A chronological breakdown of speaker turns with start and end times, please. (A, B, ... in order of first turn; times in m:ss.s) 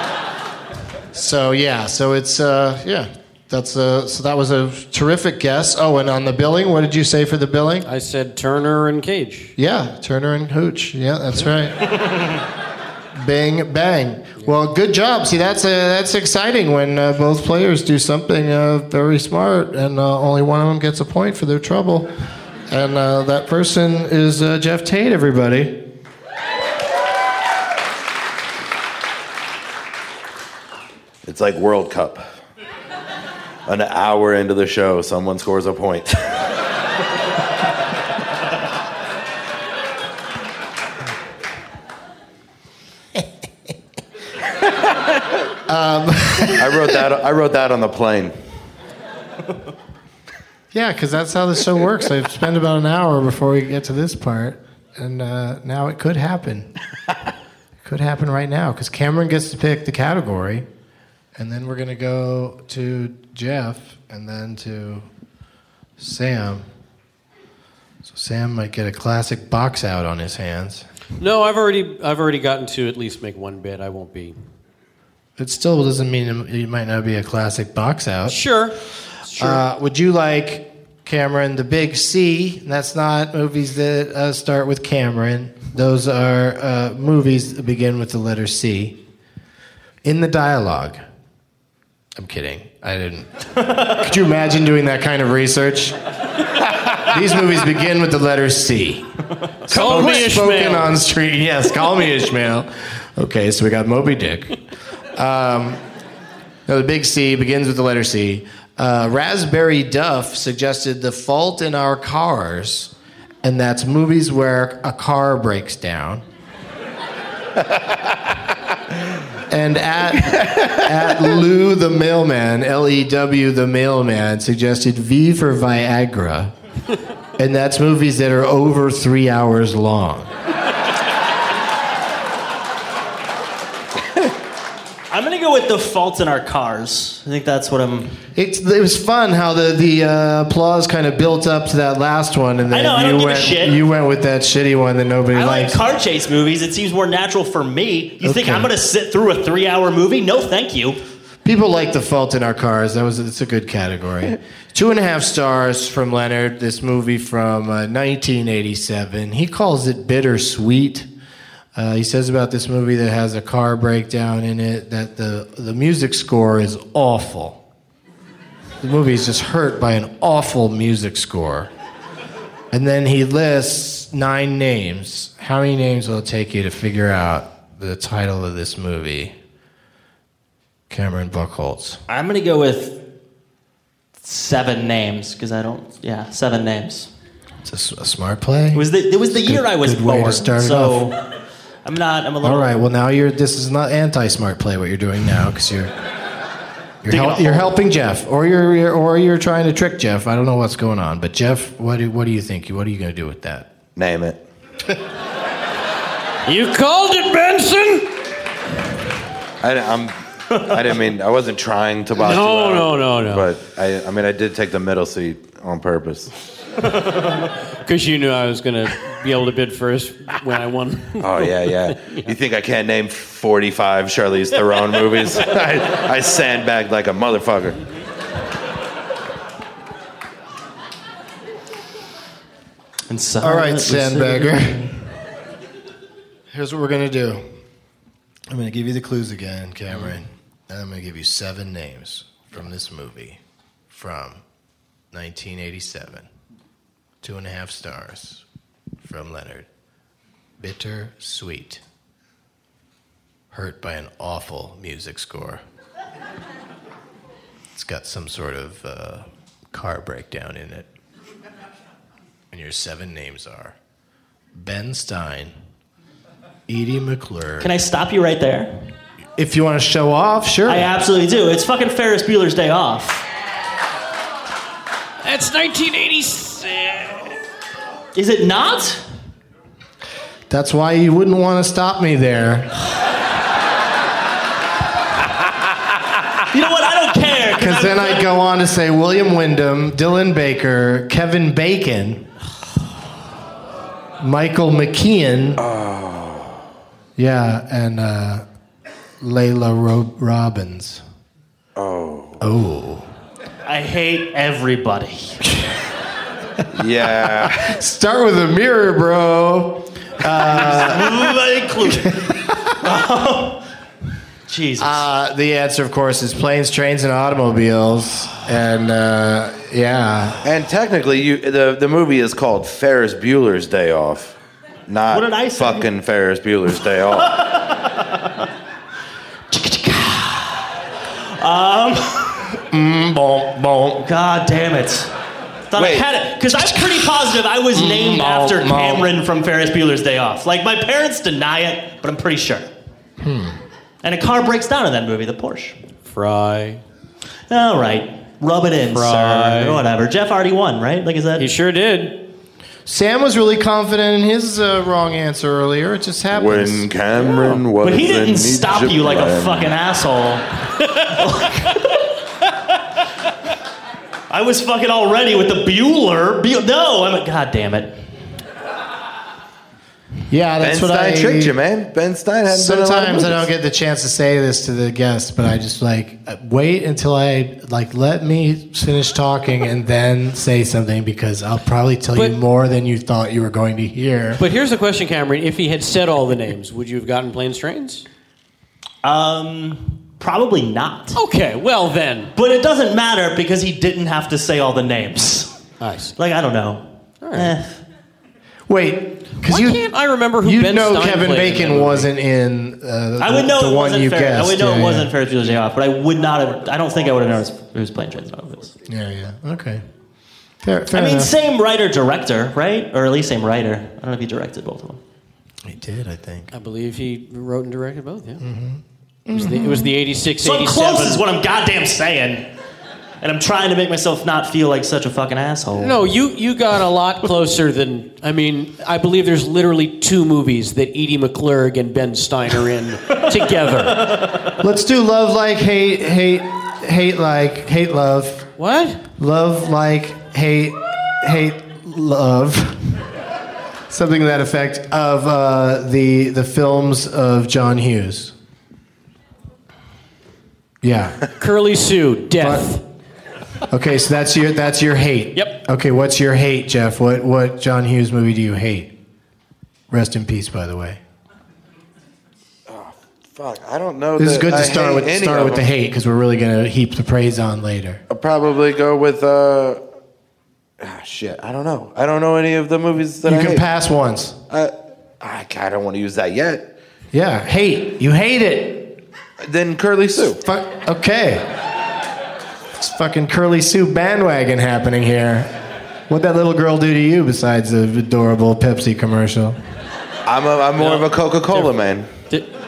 0:01.1-0:07.9 A
0:07.8-0:09.5 B
0:09.6-0:12.2 A
0:13.2-0:22.1 A
0:22.7-0:25.8 A
0:31.2-0:32.2 C
0:33.7-0:36.2 C
0:45.7-0:47.0 A
0:46.5-0:48.3 C
0:50.7-0:56.7 A
0:57.8-1:00.7 A
1:01.4-1:05.1 A
1:06.0-1:06.7 A
1:08.0-1:10.8 A
1:11.2-1:14.4 B
1:15.4-1:18.4 A
1:18.3-1:19.6 B
1:19.4-1:29.0 A
1:30.0-1:31.0 A
1:32.2-1:36.0 A
1:37.0-1:39.0 A
1:39.6-1:44.6 A
1:39.7-1:40.9 B
1:45.1-1:45.8 A
1:46.7-1:52.9 A
1:53.4-1:56.2 A
1:59.5-2:06.5 A
2:07.4-2:10.3 A
2:15.1-2:18.2 D
2:18.3-2:25.8 A
2:22.7-2:23.8 D
2:25.3-2:31.0 D
2:28.2-2:28.7 A
2:31.4-2:41.1 A
2:41.7-2:47.6 A
2:48.8-2:51.7 A
2:52.7-2:59.3 A
3:00.9-3:02.0 A
3:02.1-3:03.0 D
3:04.2-3:07.1 D
3:07.6-3:11.0 A
3:08.7-3:11.2 D
3:11.8-3:12.7 D
3:12.4-3:15.9 A
3:17.0-3:23.7 A
3:17.1-3:17.7 D
3:24.0-3:24.4 C
3:26.4-3:28.1 B
3:29.6-3:36.3 C
3:32.2-3:33.5 B
3:37.8-3:42.3 B
3:41.2-3:47.8 C
3:53.1-3:54.9 D
3:53.4-3:54.9 A
3:56.5-3:57.4 A
3:58.5-4:04.4 A
4:05.1-4:06.3 A
4:07.2-4:08.4 A
4:09.0-4:09.7 A
4:10.6-4:11.8 A
4:13.5-4:15.6 A
4:17.7-4:20.9 A
4:22.5-4:23.7 A
4:24.5-4:25.5 A
4:26.7-4:27.7 A
4:27.6-4:28.7 D
4:29.4-4:30.9 A
4:30.6-4:33.2 D
4:35.2-4:37.3 B
4:38.1-4:39.0 D
4:40.5-4:42.7 A
4:46.5-4:48.3 D
4:47.6-4:52.3 A
4:54.2-4:55.6 A
4:55.6-4:56.6 C
4:57.2-4:58.4 A
4:59.2-5:01.0 A
5:01.8-5:02.4 C
5:02.4-5:03.0 A
5:03.6-5:05.4 D
5:06.7-5:07.7 C
5:07.4-5:11.1 A
5:10.4-5:13.6 D
5:14.5-5:15.0 D
5:14.8-5:20.4 A
5:20.4-5:27.4 C
5:25.1-5:25.8 D
5:27.1-5:28.5 D
5:29.5-5:32.4 D
5:32.7-5:34.0 A
5:34.0-5:35.1 D
5:35.7-5:42.7 D
5:35.8-5:36.0 C
5:37.7-5:39.1 A
5:43.2-5:43.6 A
5:44.0-5:45.8 D
5:46.0-5:46.8 B
5:47.5-5:51.5 D
5:48.9-5:49.8 B
5:51.4-5:52.2 B
5:52.8-5:56.8 A
5:56.3-5:59.7 C
5:57.8-6:00.5 D
6:01.1-6:02.0 D
6:04.3-6:08.0 D
6:10.3-6:11.5 A
6:10.6-6:13.5 C
6:12.5-6:24.4 A
6:24.4-6:28.0 B
6:29.0-6:31.2 D
6:31.1-6:32.3 B
6:32.3-6:35.6 D
6:35.8-6:36.2 B
6:36.2-6:37.8 D
6:37.2-6:37.6 B
6:38.7-6:45.1 A
6:39.4-6:42.1 B
6:43.2-6:48.7 D
6:48.9-6:49.8 A
6:50.6-6:51.3 A
6:50.9-6:55.0 D
6:55.6-6:56.5 A
6:56.5-6:58.4 B
6:58.4-6:59.9 A
6:59.3-7:01.2 B
7:00.4-7:02.5 D
7:03.2-7:06.0 D
7:05.8-7:14.5 B
7:14.0-7:14.3 D
7:14.6-7:18.5 A
7:18.6-7:19.0 B
7:19.2-7:23.0 A
7:23.9-7:28.3 A
7:30.8-7:31.2 A
7:31.4-7:32.8 B
7:32.4-7:32.7 A
7:33.7-7:38.9 A
7:35.3-7:35.6 B
7:39.9-7:41.0 A
7:42.7-7:45.7 C
7:44.2-7:48.0 A
7:48.1-7:49.8 C
7:50.8-7:53.6 C
7:53.2-7:54.4 A
7:54.5-7:56.6 C
7:57.1-7:59.0 A
7:59.4-8:00.4 C
8:00.4-8:01.5 A
8:02.8-8:05.5 A
8:06.1-8:09.6 A
8:10.2-8:12.1 C
8:10.8-8:11.7 B